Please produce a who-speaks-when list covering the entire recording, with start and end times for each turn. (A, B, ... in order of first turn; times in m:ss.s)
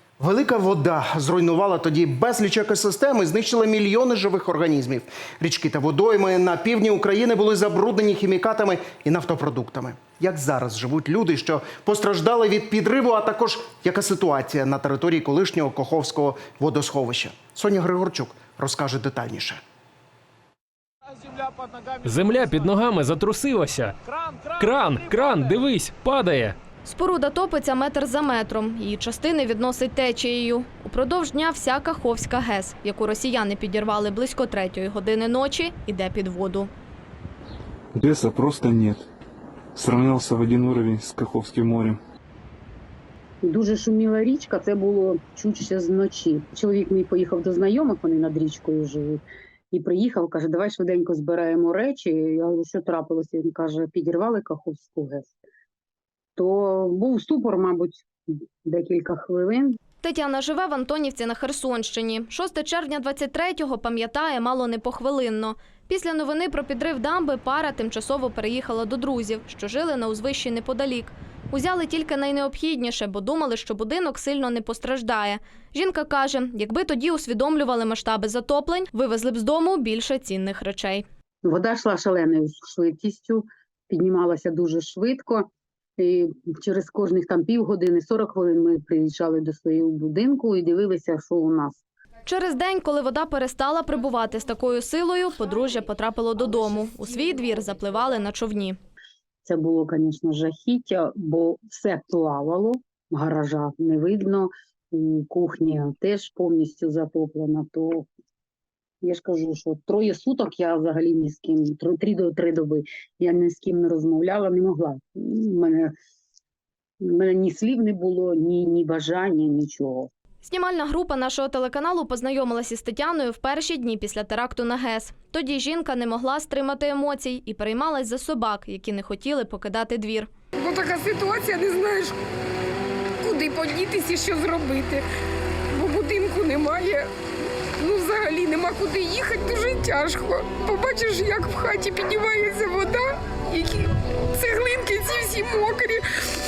0:00.2-0:19.6 A
0:22.0-0:24.0 B
0:24.6-0:26.6 B
0:26.8-0:36.7 C
0:37.9-0:39.1 D
0:39.8-0:42.0 D
0:43.4-0:49.2 E
0:49.7-0:55.3 E
0:56.4-0:58.1 E
0:58.6-0:59.8 E
1:00.0-1:21.0 C
1:21.4-1:25.5 E
1:26.0-1:31.8 E
1:32.3-1:38.8 C
1:39.4-1:48.1 E
1:49.0-1:55.9 E
1:57.0-2:00.1 E
2:00.4-2:10.3 C
2:10.6-2:12.0 F
2:13.2-2:15.0 F
2:15.8-2:16.9 F
2:17.8-2:23.0 F
2:24.4-2:25.9 F